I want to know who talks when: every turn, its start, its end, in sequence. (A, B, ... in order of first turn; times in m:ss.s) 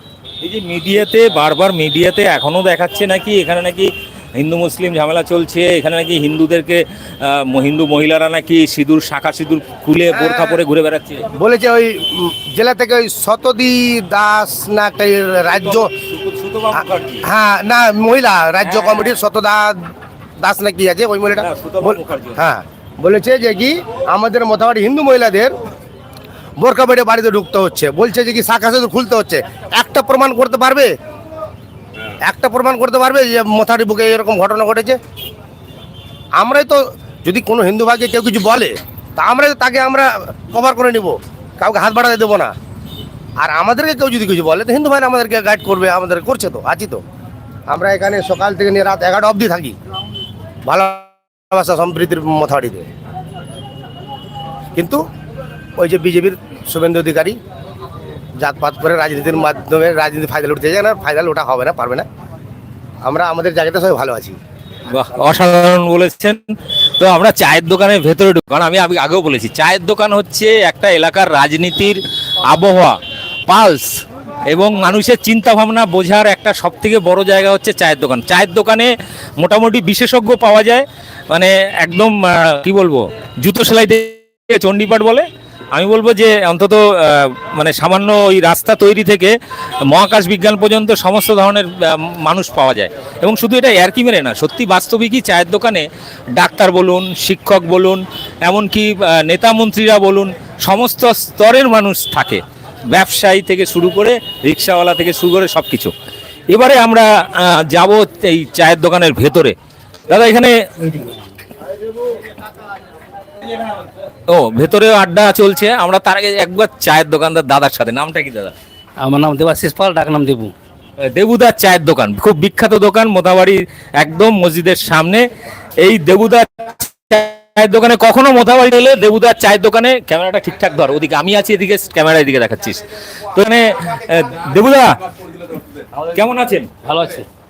0:00.4-0:11.2 A
0:10.1-0:10.6 B
0:11.4-0:15.9 B
0:15.6-0:17.2 A
0:16.7-0:19.8 B
0:18.6-0:19.2 A
0:20.4-0:25.5 B
0:21.4-0:22.4 A
0:26.6-0:30.9 B
0:32.2-0:35.0 B
0:36.4-0:42.5 B
0:43.4-0:47.0 B
0:47.7-0:49.7 B
0:50.7-0:52.8 B
0:54.8-0:55.0 B
0:55.8-0:57.3 B
0:58.4-1:02.0 B
1:03.0-1:04.4 B
1:04.9-1:06.4 A
1:07.0-1:12.0 A
1:12.5-1:13.0 A
1:13.5-1:13.9 A
1:14.5-1:29.3 A
1:29.9-1:45.9 A
1:46.5-1:49.5 A
1:50.1-1:51.1 A
1:54.3-1:58.5 A
1:59.0-2:00.5 C
2:01.0-2:05.2 A
2:05.8-2:12.8 A
2:13.3-2:16.7 A
2:16.8-2:17.2 C